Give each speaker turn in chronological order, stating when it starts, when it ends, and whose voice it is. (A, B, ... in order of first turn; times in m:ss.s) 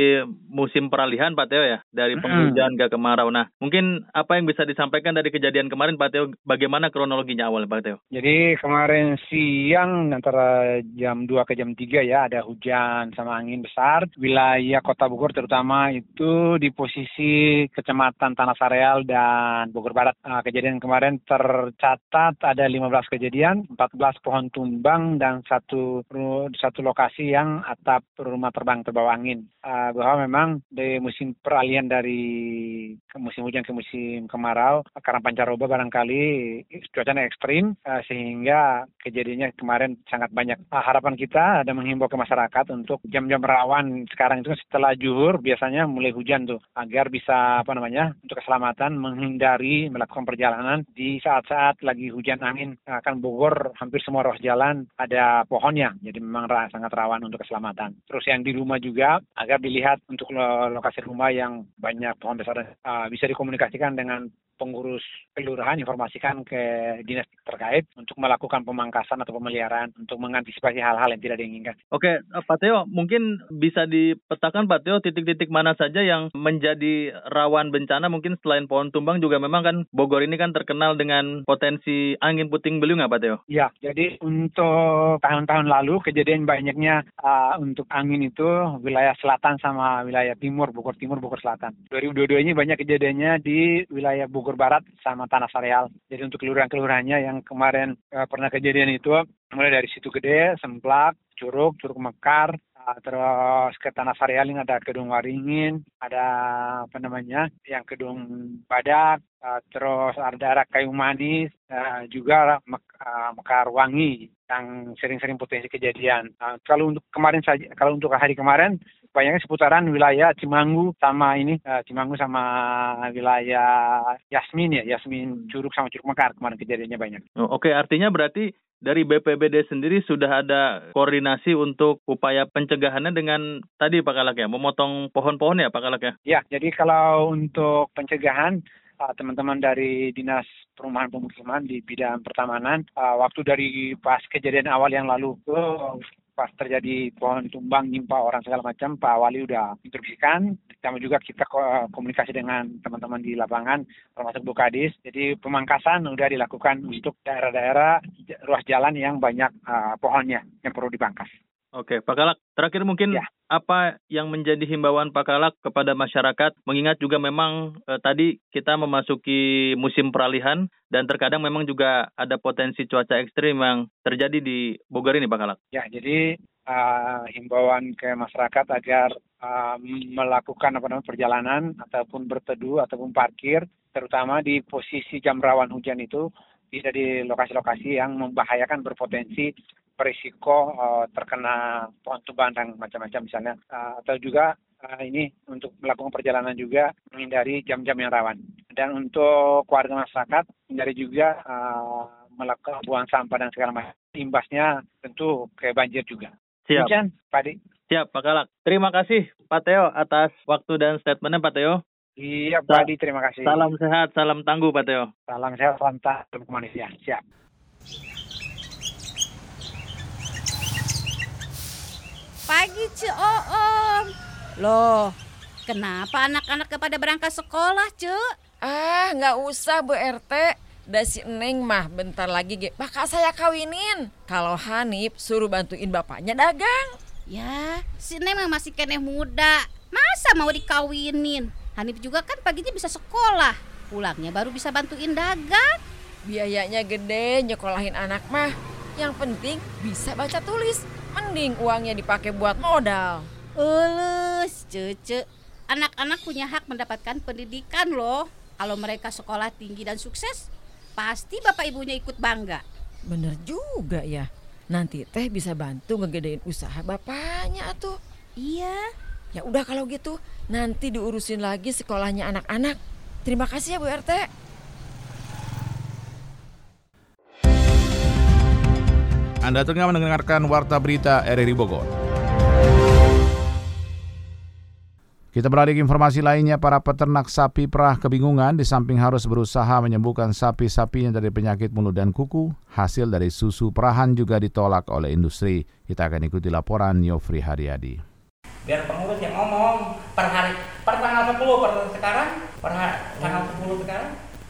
0:00.6-0:08.0 A
0:02.2-0:02.6 B
0:08.1-0:10.5 B
0:11.0-1:11.7 B
1:11.9-1:23.4 A
1:23.5-2:07.2 B
2:07.5-2:16.1 A
2:16.3-2:41.3 B
2:41.7-2:55.6 A
2:55.7-3:27.6 B
3:27.9-3:31.8 A
3:32.2-3:33.6 B
3:33.4-3:35.1 A
3:35.3-3:37.2 B
3:42.5-3:44.1 C
3:44.6-3:45.1 C
3:45.7-3:48.2 C
3:48.6-3:57.0 D
3:57.3-4:05.8 C
4:06.2-4:13.3 D
4:13.6-4:20.4 C
4:21.0-4:22.6 C
4:23.1-4:28.0 D
4:28.4-4:28.8 C
4:29.3-4:34.3 D
4:39.4-4:41.9 E
4:45.3-4:58.0 E
4:58.6-5:04.1 F